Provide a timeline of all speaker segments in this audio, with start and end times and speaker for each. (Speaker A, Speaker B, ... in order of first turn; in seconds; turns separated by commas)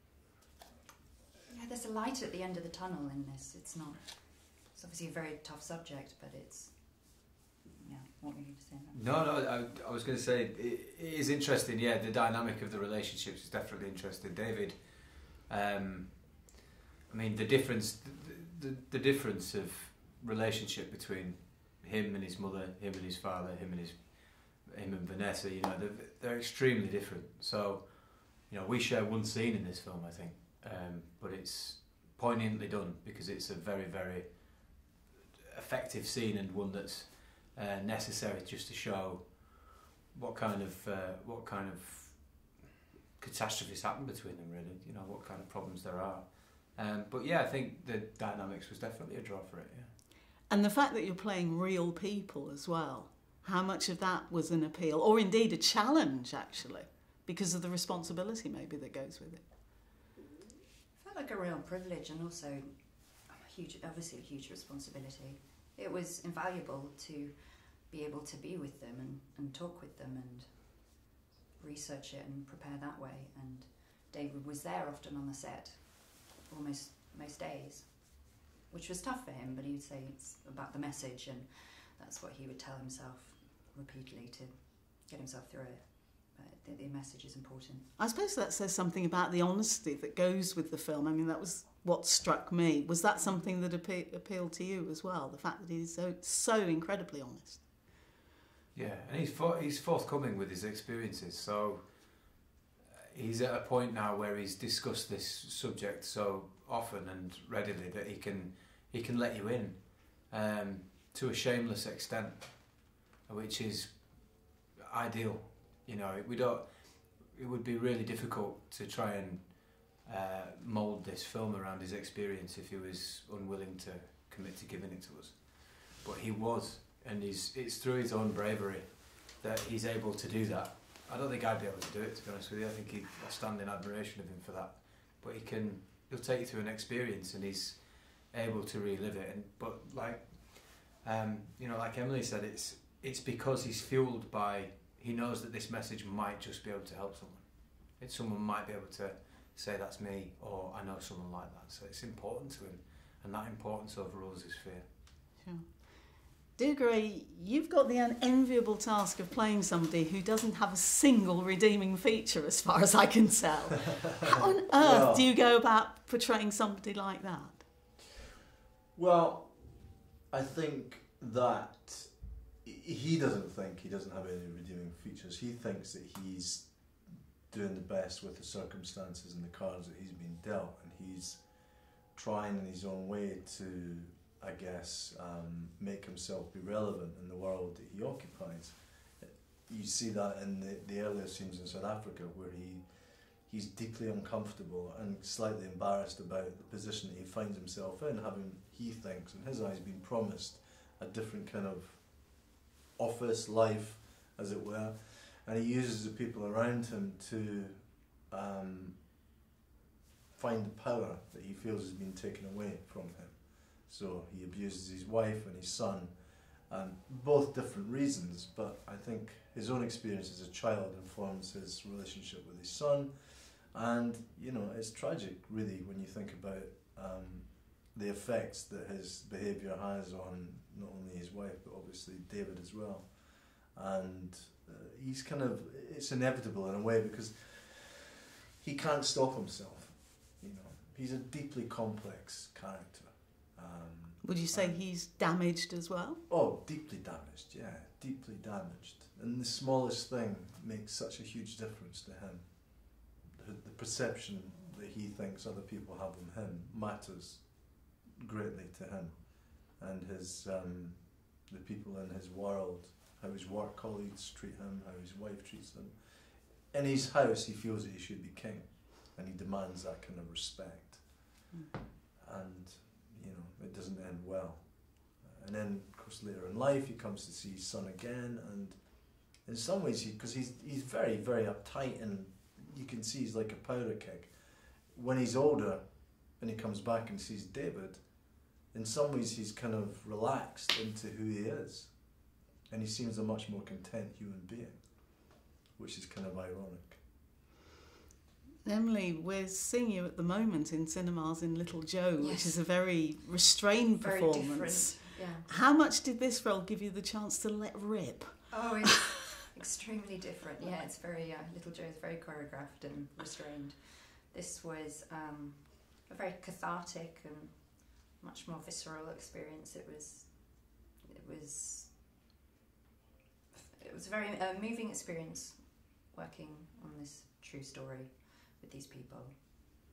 Speaker A: 1.5-9.0, Speaker B: 8.9-16.5, Speaker B: 17.1-34.9, Speaker B: 35.5-42.6, Speaker B: 43.2-49.9, Speaker C: 50.5-59.5, Speaker A: 61.0-87.9, Speaker C: 88.0-97.7, Speaker B: 98.7-102.4, Speaker B: 102.9-154.9, Speaker C: 155.4-167.7, Speaker D: 164.8-165.3, Speaker D: 168.9-209.2, Speaker D: 210.3-244.8, Speaker C: 244.2-246.2, Speaker D: 246.3-271.4, Speaker A: 271.5-271.8, Speaker D: 272.2-297.0, Speaker C: 298.6-308.8, Speaker A: 302.2-302.6, Speaker A: 304.0-305.5, Speaker A: 308.5-322.0, Speaker A: 323.5-329.4